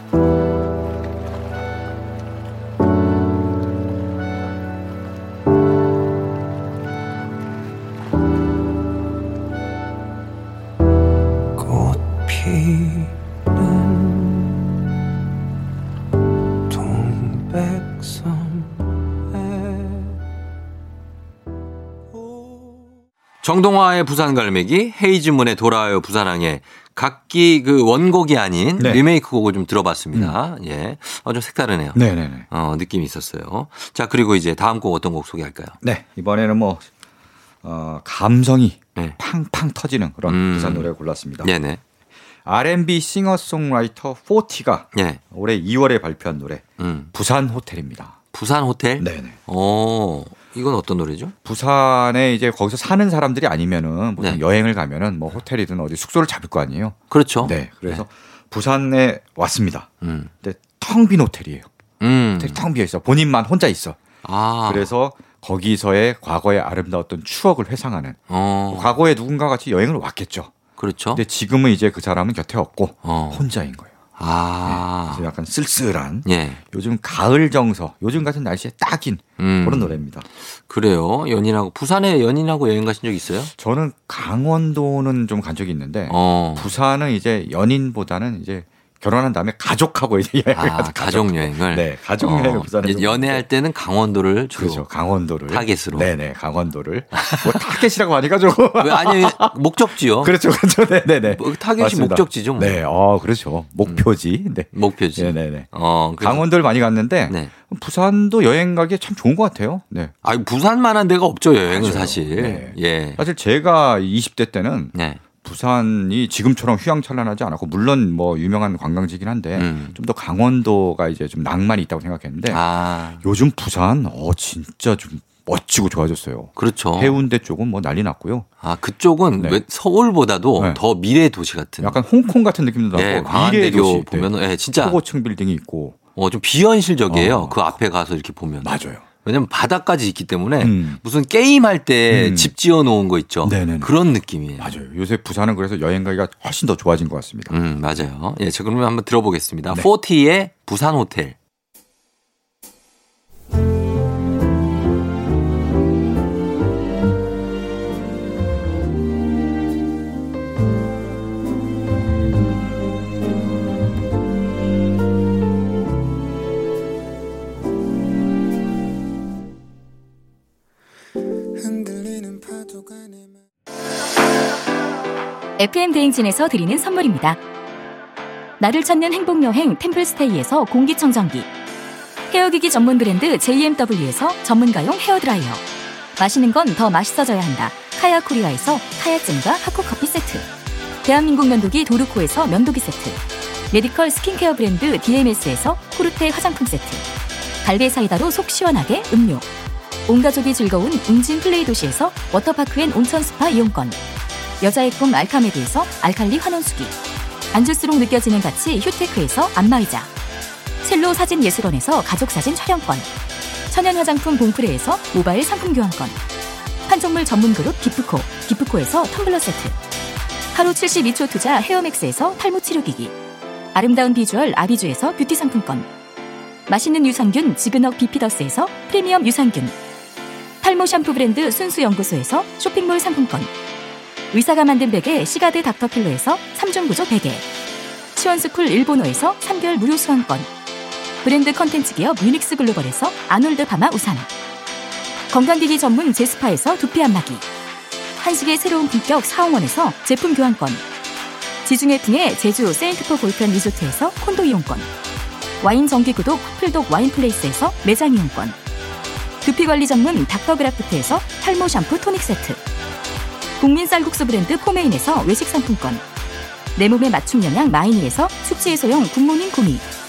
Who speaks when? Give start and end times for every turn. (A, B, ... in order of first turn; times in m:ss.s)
0:11.6-0:14.4 A
0:16.7-0:20.1 A
0:22.1-0:22.8 A
0:23.4-0:35.8 B
0:28.8-0:29.0 C
0:32.0-0:32.5 C
0:35.8-0:36.9 C
0:37.6-0:41.5 C
0:40.3-0:40.9 B
0:41.4-0:41.8 B
0:42.5-0:48.2 C
0:44.9-0:45.2 B
0:46.8-0:47.1 B
0:48.3-0:51.4 B
0:49.0-0:49.4 C
0:51.4-0:59.9 C
0:57.1-0:58.0 B
1:00.0-1:00.3 B
1:00.4-1:01.7 C
1:02.0-1:02.6 B
1:02.4-1:04.0 C
1:04.2-1:04.9 B
1:04.7-1:08.2 C
1:08.3-1:08.9 B
1:08.7-1:10.5 C
1:10.8-1:11.2 B
1:11.2-1:13.9 C
1:13.0-1:13.5 B
1:14.2-1:15.3 B
1:14.6-1:20.3 C
1:16.3-1:16.6 B
1:19.4-1:20.0 B
1:20.7-1:23.5 B
1:23.6-1:33.4 C
1:26.1-1:26.7 B
1:30.5-1:34.9 B
1:34.5-1:39.6 C
1:35.5-1:36.1 B
1:37.1-1:37.8 B
1:38.8-1:40.4 B
1:40.2-1:50.1 C
1:41.3-1:42.8 B
1:44.7-1:46.5 B
1:50.2-1:53.2 B
1:51.7-2:02.6 C
1:54.9-1:55.2 B
1:59.6-2:00.0 B
2:02.5-2:03.2 B
2:03.2-2:08.5 C
2:06.6-2:07.2 B
2:08.6-2:12.0 B
2:09.4-2:09.6 C
2:11.8-2:16.0 C
2:12.9-2:15.0 B
2:16.2-2:24.7 B
2:17.1-2:17.6 C
2:18.6-2:19.1 C
2:20.6-2:21.0 C
2:22.1-2:22.5 C
2:23.4-2:23.9 C
2:24.6-2:27.5 C
2:27.5-2:31.4 B
2:55.6-2:57.4 D
2:58.6-3:01.5 D
3:02.3-3:05.6 D
3:06.2-3:10.5 D
3:11.0-3:13.2 D
3:13.7-3:17.0 D
3:17.6-3:19.5 D
3:20.1-3:24.0 D
3:24.6-3:26.9 D
3:27.5-3:30.1 D
3:30.8-3:33.1 D
3:33.7-3:36.2 D
3:36.9-3:39.8 D
3:40.5-3:43.2 D
3:43.7-3:45.9 D
3:46.7-3:49.8 D
3:50.6-3:53.5 D
3:54.3-3:57.5 D
3:58.2-4:00.5 D
4:01.2-4:04.3 D
4:05.3-4:07.4 D
4:08.2-4:10.8 D
4:11.6-4:14.9 D
4:15.6-4:18.6 D
4:19.4-4:22.6 D
4:23.6-4:26.0 D
4:26.8-4:29.8 D